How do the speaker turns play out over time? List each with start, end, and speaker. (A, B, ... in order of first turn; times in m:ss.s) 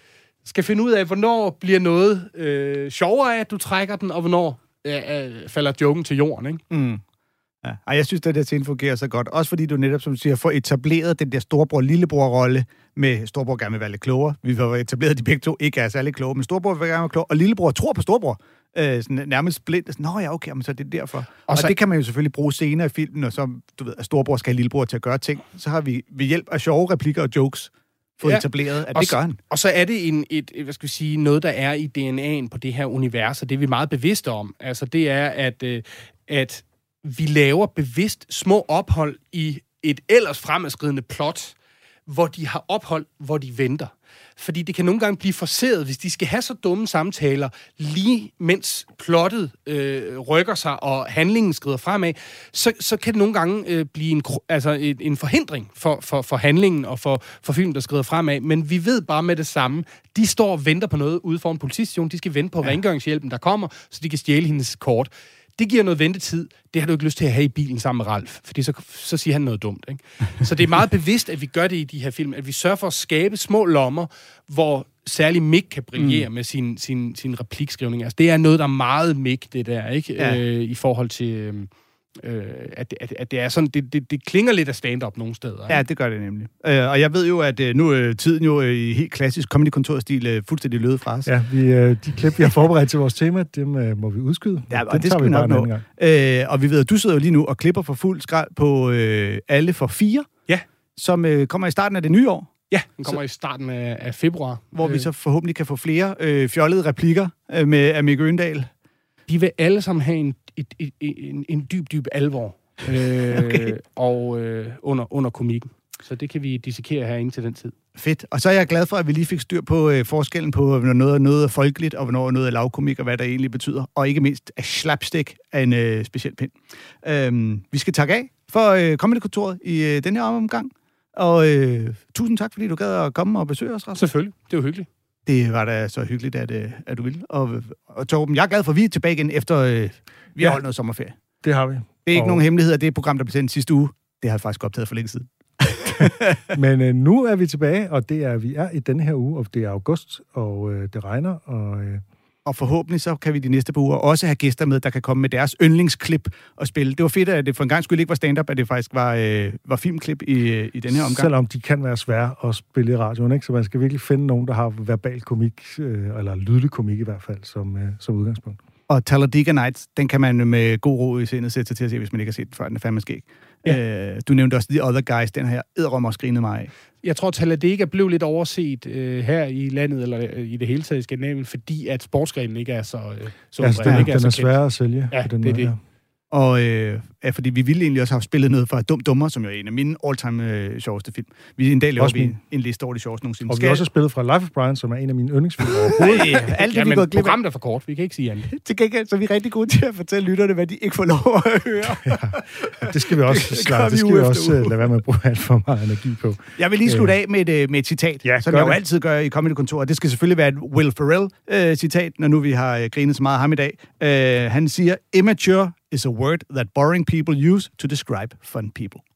0:00.4-0:06.6 A
0:06.7-0:07.0 B
0:07.6-0:29.4 B
0:21.5-0:21.7 A
0:28.2-0:41.6 A
0:42.1-1:21.7 A
1:16.0-1:16.2 B
1:22.2-1:25.8 A
1:25.7-1:31.3 B
1:31.3-1:35.8 C
1:34.7-1:40.3 B
1:41.0-1:43.2 B
1:42.7-1:45.1 A
1:44.7-1:48.7 B
1:49.3-1:57.7 A
1:53.3-1:53.7 B
1:58.0-2:14.0 B
2:13.9-2:14.9 A
2:15.3-2:21.1 B
2:21.4-2:22.4 C
2:22.0-2:26.5 B
2:26.5-2:32.0 C
2:32.4-2:41.3 B
2:40.9-2:48.6 C
2:48.9-2:56.7 B
2:57.0-3:04.6 A
3:03.6-3:05.8 C
3:05.1-3:05.7 A
3:06.3-3:13.8 B
3:12.0-3:12.4 C
3:13.5-3:16.4 C
3:16.0-3:17.4 B
3:16.0-3:18.5 A
3:18.5-3:24.8 B
3:22.0-3:27.1 C
3:26.6-3:39.0 B
3:28.2-3:28.8 C